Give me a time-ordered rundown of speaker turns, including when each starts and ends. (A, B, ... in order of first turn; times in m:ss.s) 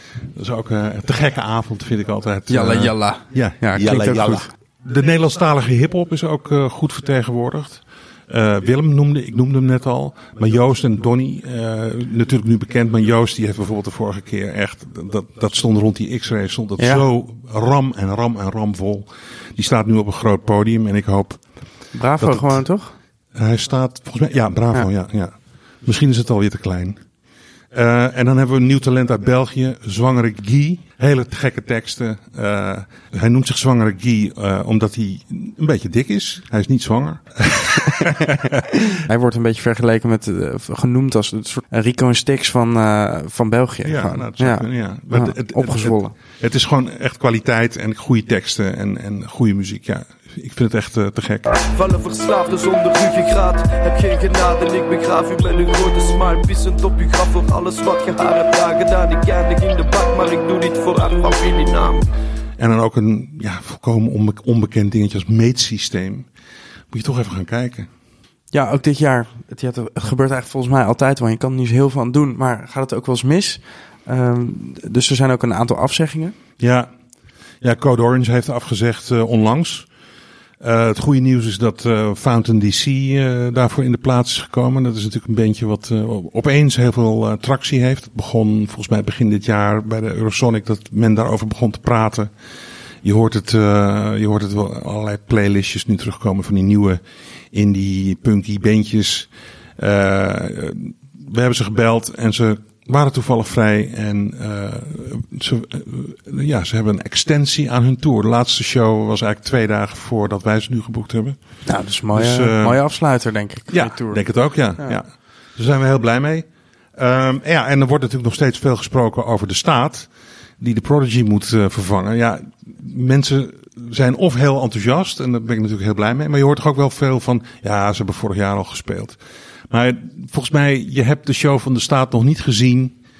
0:00.3-0:21.4 A
0:02.5-0:04.5 B
0:16.8-0:17.0 B
0:21.9-0:22.9 B
0:22.2-0:22.6 A
0:23.3-0:27.0 A
0:27.7-0:38.6 A
0:37.8-0:46.1 B
0:43.8-0:51.5 A
0:51.7-1:02.0 C
1:02.6-1:06.3 A
1:06.9-1:07.9 A
1:08.5-1:16.3 B
1:16.6-1:16.9 A
1:17.6-1:19.9 A
1:20.6-1:32.3 A
1:33.0-1:37.0 A
1:37.5-1:51.4 A
1:51.6-1:54.2 B
1:52.1-1:52.8 A
1:53.7-2:09.2 A
2:09.7-2:13.0 A